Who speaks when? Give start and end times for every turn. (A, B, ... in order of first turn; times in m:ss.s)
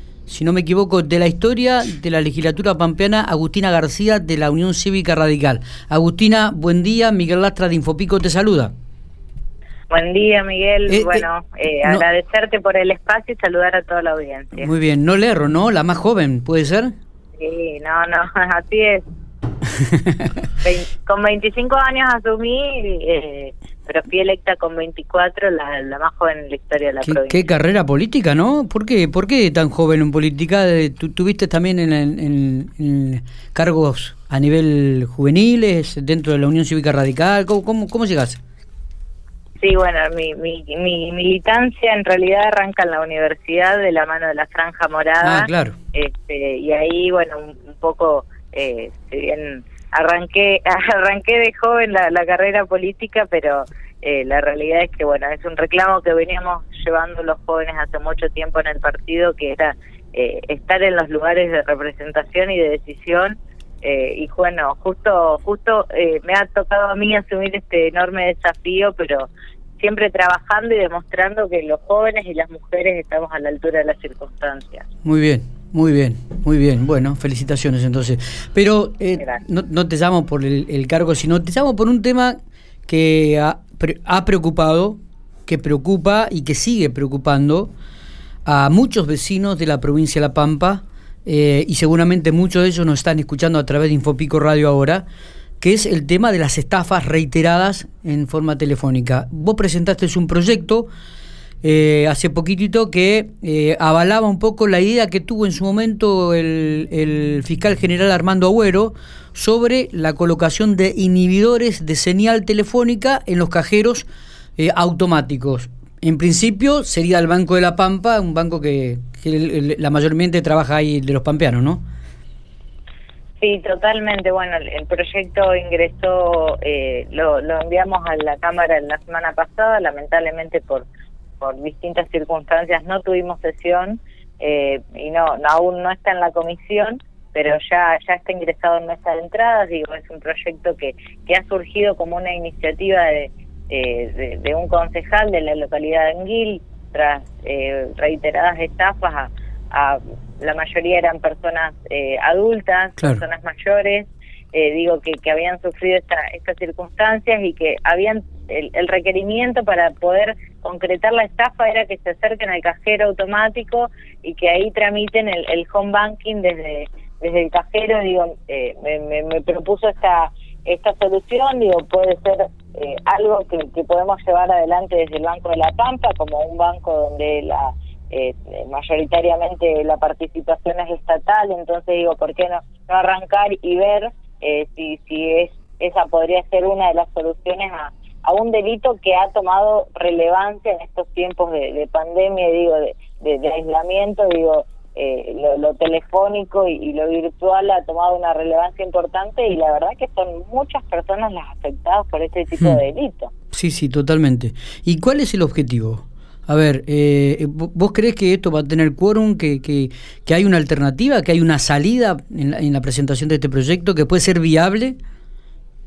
0:00.3-0:08.7 A
0:09.9-0:14.7 B
0:10.9-0:11.2 A
0:14.6-0:16.9 A
0:17.4-0:19.0 B
0:19.9-0:20.2 A
0:20.6-0:27.4 B
0:27.0-0:38.4 A
0:39.6-1:14.9 B
0:45.2-0:45.8 A
1:15.0-1:27.7 A
1:28.4-1:35.0 A
1:35.6-1:40.9 A
1:41.6-1:54.1 A
1:54.6-2:01.8 A
2:03.4-2:10.9 B
2:11.4-3:23.3 B
3:23.5-3:35.0 A